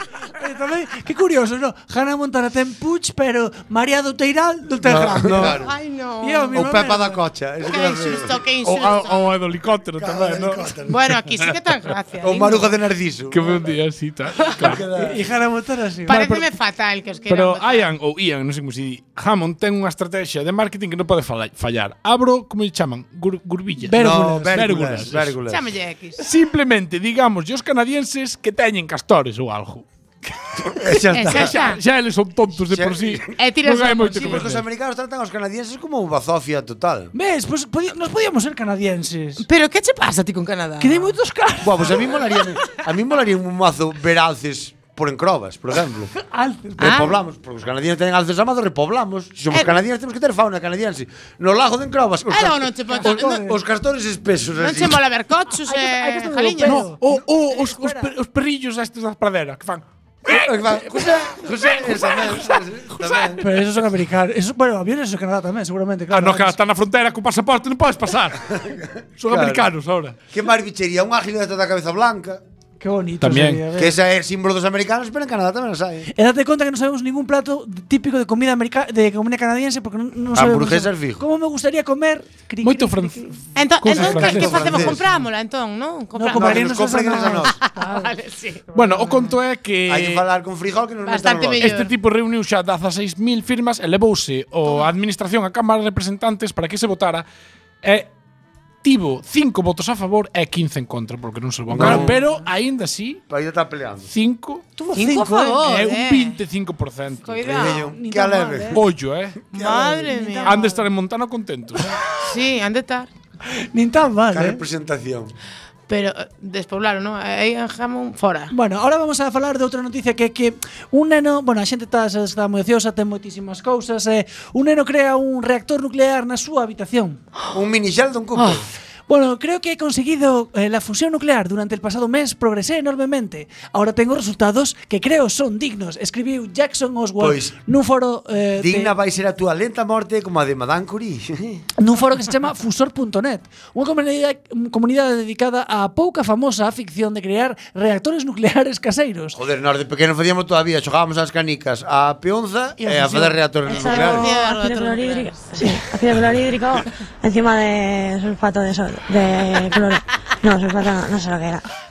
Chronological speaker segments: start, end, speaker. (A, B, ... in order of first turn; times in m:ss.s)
0:00.3-0:05.6 A
0:04.8-0:05.7 B
0:05.4-0:06.6 C
0:06.2-0:07.2 A
0:06.5-0:08.4 B
0:07.6-0:09.3 C
0:08.6-0:10.7 D
0:10.0-0:11.0 B
0:10.9-0:12.7 C
0:12.2-0:13.7 B
0:13.3-0:14.8 D
0:14.6-0:15.2 B
0:14.9-0:16.5 A
0:16.1-0:17.9 C
0:17.3-0:25.4 D
0:23.8-0:24.6 A
0:23.9-0:25.7 B
0:25.5-0:26.2 C
0:26.2-0:29.8 D
0:30.6-0:31.6 B
0:31.1-0:31.8 C
0:31.2-0:34.6 D
0:32.7-0:33.3 B
0:33.3-0:34.5 C
0:34.1-0:37.1 B
0:37.1-0:39.4 A
0:39.4-0:41.1 C
0:40.8-0:42.7 A
0:41.6-0:46.1 B
0:46.1-0:47.0 A
0:46.8-0:55.0 B
0:46.8-0:47.1 C
0:49.5-0:49.8 C
0:52.3-0:53.4 C
0:53.0-0:53.6 A
0:54.6-0:56.8 C
0:55.5-0:58.1 A
0:56.6-1:03.3 D
1:00.2-1:03.4 B
1:03.4-1:06.6 A
1:06.1-1:08.4 D
1:08.5-1:09.7 B
1:09.2-1:10.2 D
1:10.3-1:12.4 B
1:12.8-1:14.0 A
1:13.2-1:13.6 D
1:13.8-1:16.1 B
1:16.1-1:23.3 A
1:20.3-1:21.2 B
1:22.6-1:25.2 D
1:23.5-1:28.7 C
1:23.9-1:25.0 B
1:26.2-1:28.1 A
1:26.3-1:27.6 B
1:28.7-1:30.2 D
1:28.7-1:29.2 A
1:29.9-1:31.7 B
1:31.0-1:31.9 C
1:31.6-1:37.2 D
1:37.8-1:38.1 D
1:38.8-1:43.2 D
1:41.7-1:42.2 B
1:43.3-1:44.1 B
1:44.1-1:44.6 D
1:44.8-1:45.7 A
1:44.9-1:46.4 C
1:45.6-1:47.4 D
1:47.2-1:47.9 C
1:47.4-1:48.8 B
1:47.9-1:48.8 A
1:48.7-1:49.4 D
1:49.5-1:50.7 C
1:49.5-1:50.9 A
1:50.4-1:52.0 D
1:52.2-1:53.1 C
1:53.6-1:54.6 A
1:54.3-1:55.3 B
1:55.9-1:58.5 C
1:58.5-2:07.2 A
2:07.5-2:08.6 B
2:08.4-2:08.6 C
2:09.1-2:18.9 A
2:17.2-2:17.5 B
2:18.6-2:21.6 B
2:21.8-2:29.4 A
2:29.3-2:34.3 B
2:32.8-2:33.4 A
2:33.7-2:41.6 E
2:33.8-2:35.8 C